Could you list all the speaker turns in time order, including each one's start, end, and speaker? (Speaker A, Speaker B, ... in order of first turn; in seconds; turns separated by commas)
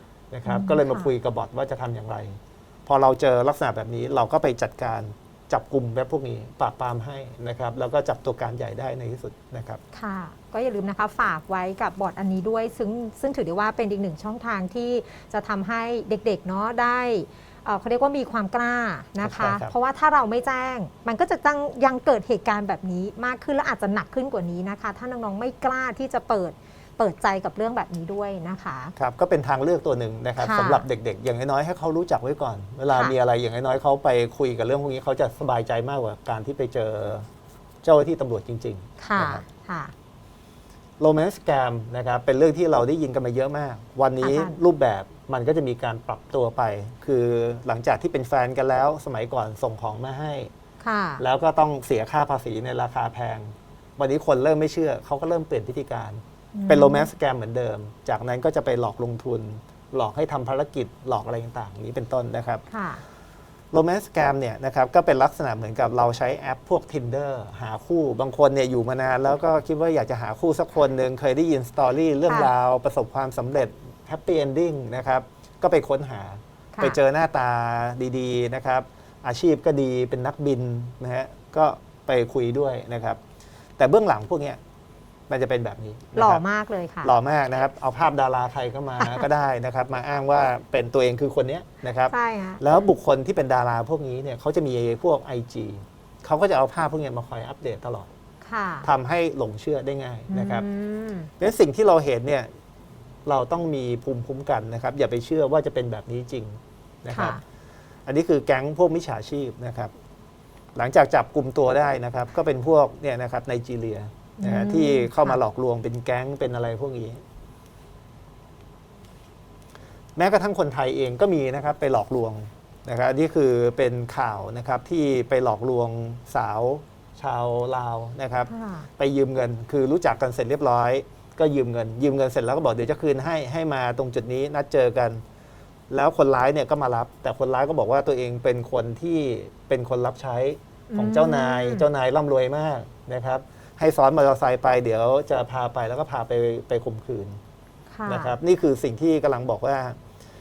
Speaker A: 0.3-9.8, Speaker B: 0.5-1.1, Speaker B: 9.9-28.9, Speaker A: 19.2-19.7, Speaker A: 29.0-37.3, Speaker B: 30.4-30.8, Speaker A: 37.8-39.4, Speaker B: 39.0-39.9, Speaker A: 41.0-50.5, Speaker B: 44.2-44.6, Speaker B: 50.8-51.2, Speaker A: 51.2-62.6, Speaker B: 56.5-57.1, Speaker B: 62.7-63.0, Speaker A: 63.7-83.2, Speaker A: 83.8-84.6, Speaker A: 85.3-86.4, Speaker B: 86.1-87.1, Speaker A: 87.0-98.1, Speaker B: 89.0-89.2, Speaker B: 92.1-92.6, Speaker B: 98.4-98.9, Speaker A: 98.8-100.6, Speaker B: 100.3-101.3, Speaker A: 101.4-102.5, Speaker A: 103.2-107.4, Speaker B: 107.1-107.4, Speaker A: 108.1-109.9, Speaker A: 110.8-117.2, Speaker B: 114.4-115.4, Speaker A: 120.2-135.2, Speaker B: 128.5-128.9, Speaker A: 135.9-147.4, Speaker B: 140.9-141.9, Speaker B: 147.9-148.3, Speaker A: 148.1-150.0